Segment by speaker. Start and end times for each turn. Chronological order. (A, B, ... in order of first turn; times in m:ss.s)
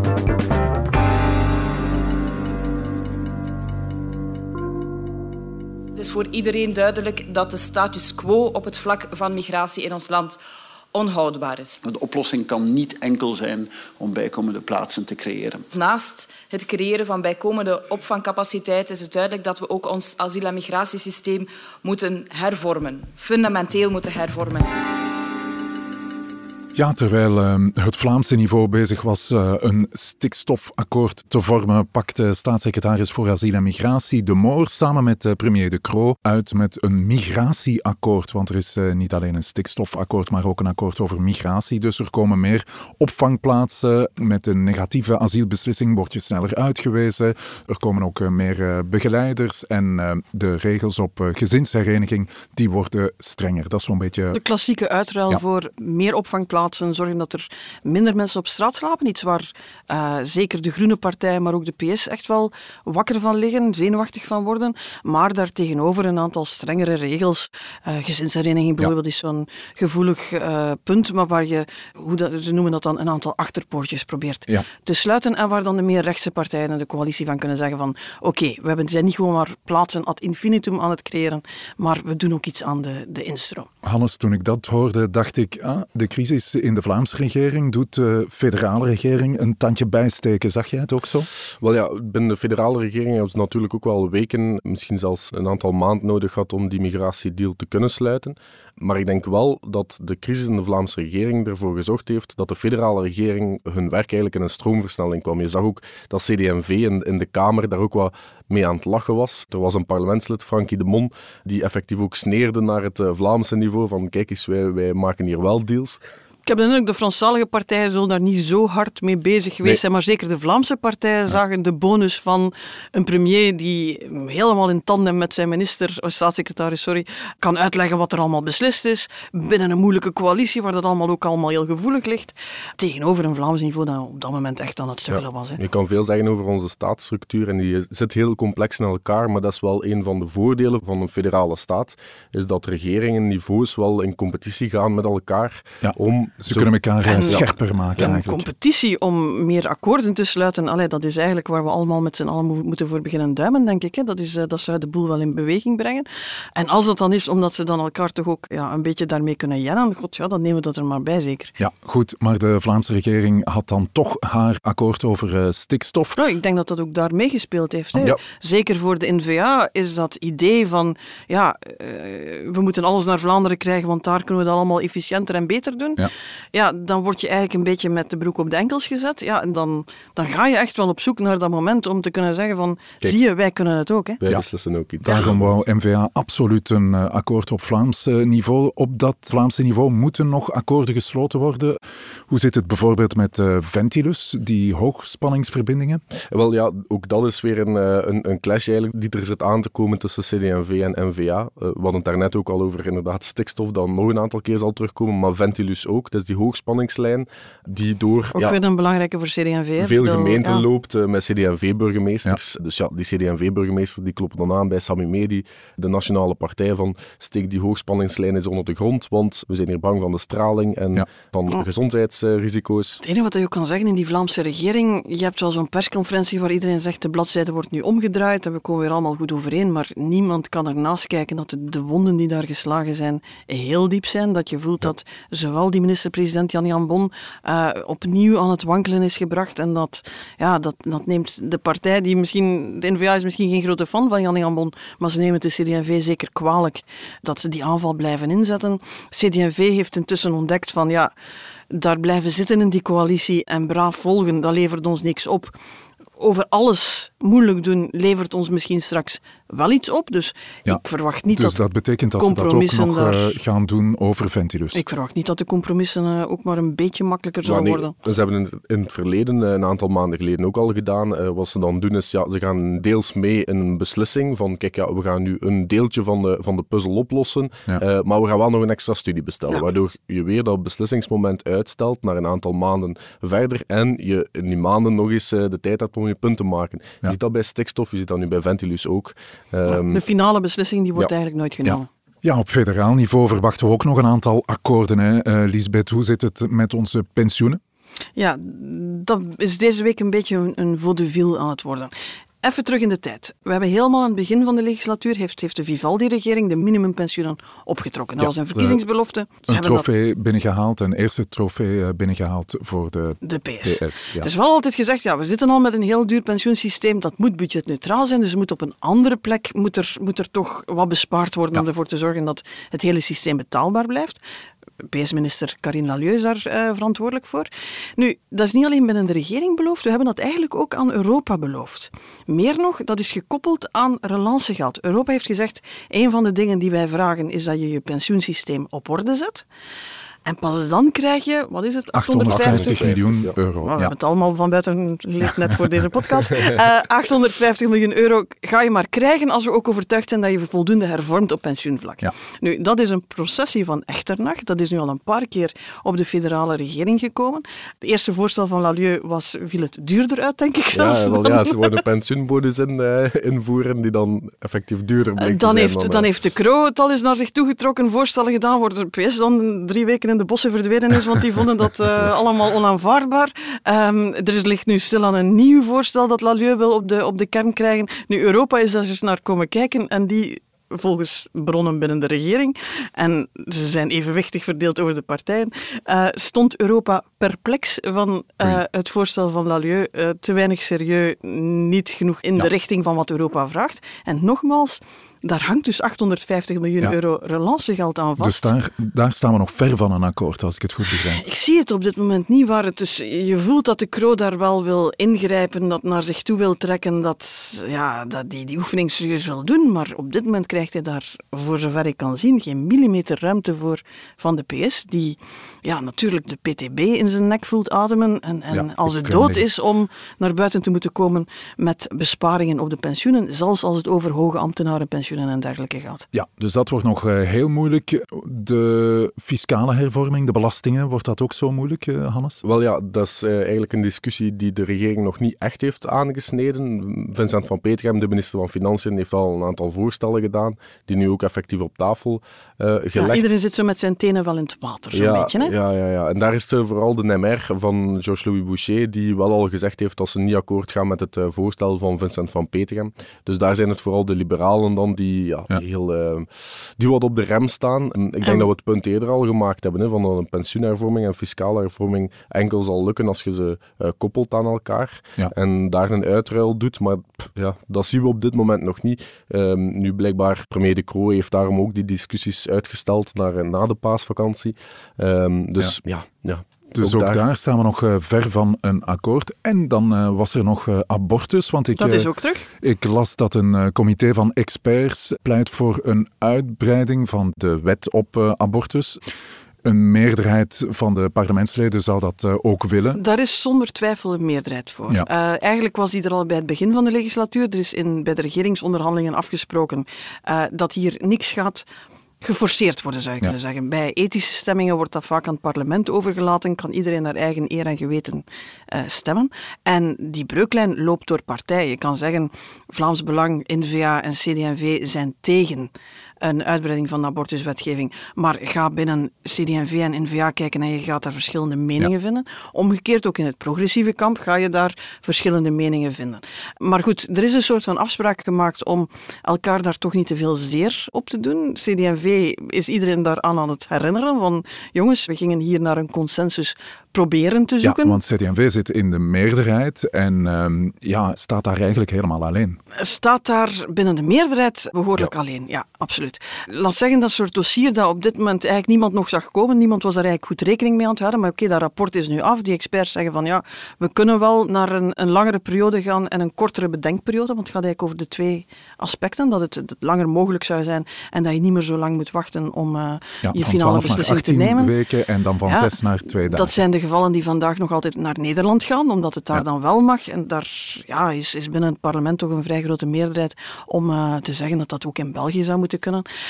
0:05.9-0:10.4 A
0:10.9-0:11.8 A
0:11.8-0:15.6 B
0:15.7-0:24.7 A
0:26.7-0:54.4 C
0:54.3-1:23.7 D
1:23.8-1:31.3 C
1:31.6-1:56.0 E
1:56.4-2:15.6 D
2:15.1-2:27.4 E
2:25.8-2:28.4 C
2:27.0-2:27.4 D
2:28.0-2:41.5 D
2:41.6-2:46.2 C
2:46.2-3:04.2 D
3:04.2-3:05.6 E
3:05.0-3:16.0 C
3:16.3-3:28.6 E
3:28.3-3:30.6 D
3:29.8-3:43.0 E
3:43.0-4:11.1 D
4:11.7-4:15.6 D
4:16.2-4:21.6 D
4:21.3-4:24.8 C
4:22.2-4:23.3 D
4:24.7-4:27.9 D
4:27.4-4:50.0 E
4:49.7-4:51.9 D
4:51.6-4:57.6 C
4:58.2-5:01.9 D
5:02.4-5:09.8 D
5:08.2-5:08.8 C
5:09.5-5:14.3 C
5:13.2-5:24.2 D
5:24.8-5:39.4 D
5:40.2-5:42.9 D
5:41.9-5:43.9 C
5:42.3-5:43.3 E
5:43.6-6:01.8 D
6:00.7-6:06.1 E
6:05.2-6:38.5 D
6:38.2-6:41.2 C
6:41.2-7:06.0 D
6:58.5-6:59.4 C
7:06.1-7:12.4 C
7:12.4-7:23.2 E
7:23.0-7:25.5 D
7:24.9-7:57.2 E
7:56.8-8:02.1 C
8:01.8-8:02.5 D
8:02.6-8:09.0 C
8:09.6-8:13.0 C
8:12.9-8:21.6 D
8:22.2-8:58.0 D
8:57.6-9:02.6 C
9:02.7-9:24.7 D
9:23.2-9:26.5 C
9:25.5-9:36.0 D